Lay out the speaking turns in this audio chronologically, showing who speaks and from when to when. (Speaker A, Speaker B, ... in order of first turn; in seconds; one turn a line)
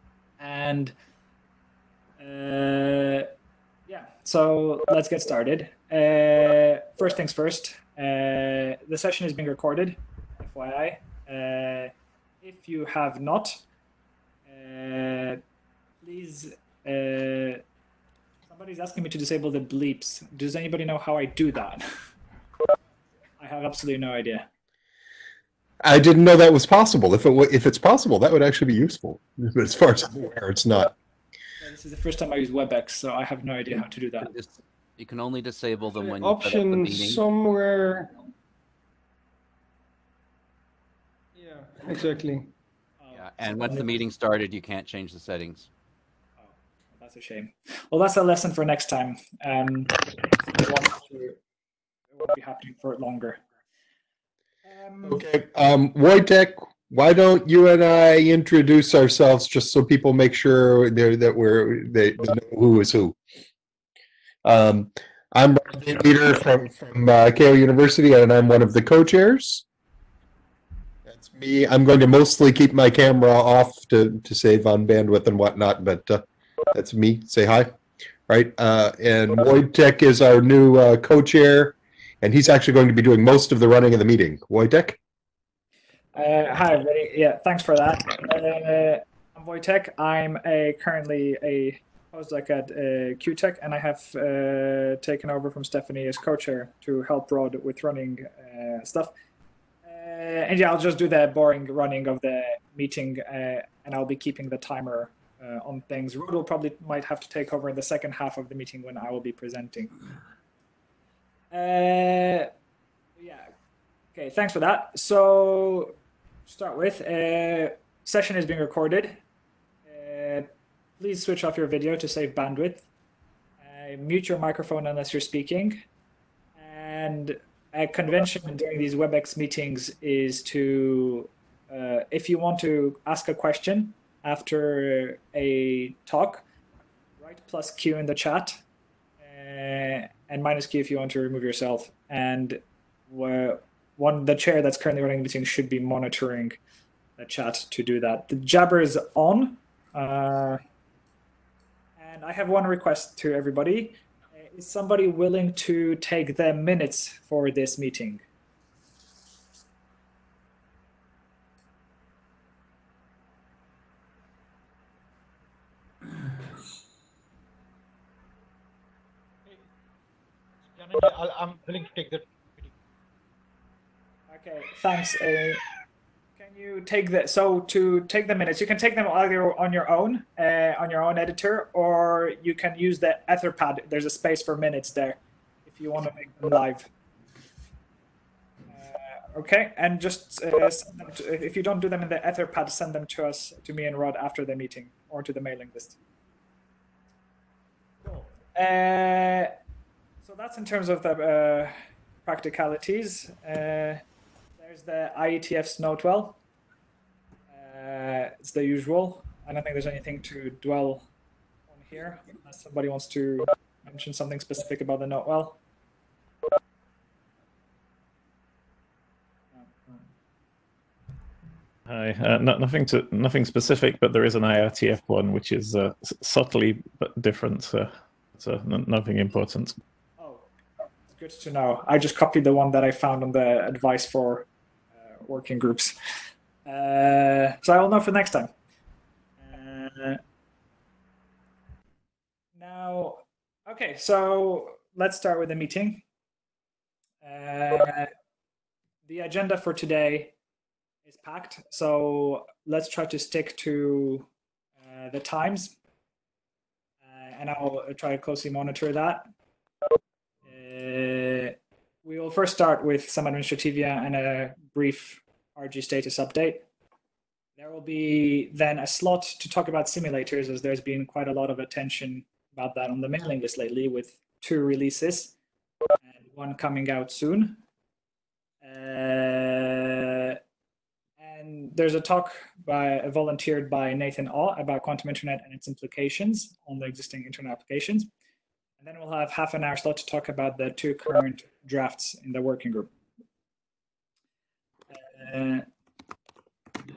Speaker A: 0.4-0.9
Speaker A: 2.2-3.3
Speaker A: 3.9-13.6
Speaker A: 14.5-15.4
Speaker A: 16.0-17.6
Speaker A: 18.5-21.8
Speaker A: 23.4-24.5
Speaker B: 25.8-30.9
Speaker A: 31.6-34.3
Speaker C: 34.2-37.2
Speaker D: 36.0-38.1
Speaker D: 41.3-42.5
Speaker A: 43.0-43.9
Speaker C: 43.1-45.7
Speaker A: 46.4-51.4
Speaker A: 52.1-53.4
Speaker A: 54.6-55.2
Speaker B: 55.0-63.1
Speaker B: 64.4-69.6
Speaker B: 71.0-77.7
Speaker B: 78.3-85.0
Speaker A: 86.1-99.1
Speaker A: 99.8-110.0
Speaker A: 111.5-112.5
Speaker A: 113.2-113.5
Speaker A: 114.1-115.9
Speaker A: 116.5-119.2
Speaker A: 119.9-122.8
Speaker A: 123.6-125.8
Speaker A: 126.6-136.4
Speaker A: 137.2-138.6
Speaker A: 139.2-146.6
Speaker A: 147.2-150.6
Speaker A: 152.0-158.2
Speaker E: 170.7-172.7
Speaker A: 174.3-175.6
Speaker A: 176.4-186.9
Speaker A: 188.7-196.0
Speaker A: 198.0-199.5
Speaker A: 200.2-201.7
Speaker A: 202.2-204.0
Speaker A: 204.6-206.4
Speaker A: 207.5-211.1
Speaker A: 211.7-215.6
Speaker A: 219.6-220.0
Speaker F: 221.9-229.8
Speaker A: 230.2-230.5
Speaker A: 231.1-234.5
Speaker A: 235.2-235.9
Speaker A: 236.7-238.5
Speaker A: 239.4-240.2
Speaker A: 242.6-246.0
Speaker A: 247.2-248.1
Speaker A: 249.1-250.3
Speaker A: 251.1-254.3
Speaker A: 254.8-255.8
Speaker A: 257.0-259.3
Speaker A: 260.4-266.6
Speaker A: 267.6-275.3
Speaker A: 276.0-277.6
Speaker A: 278.6-280.4
Speaker A: 281.2-288.1
Speaker A: 288.8-292.9
Speaker A: 294.9-295.6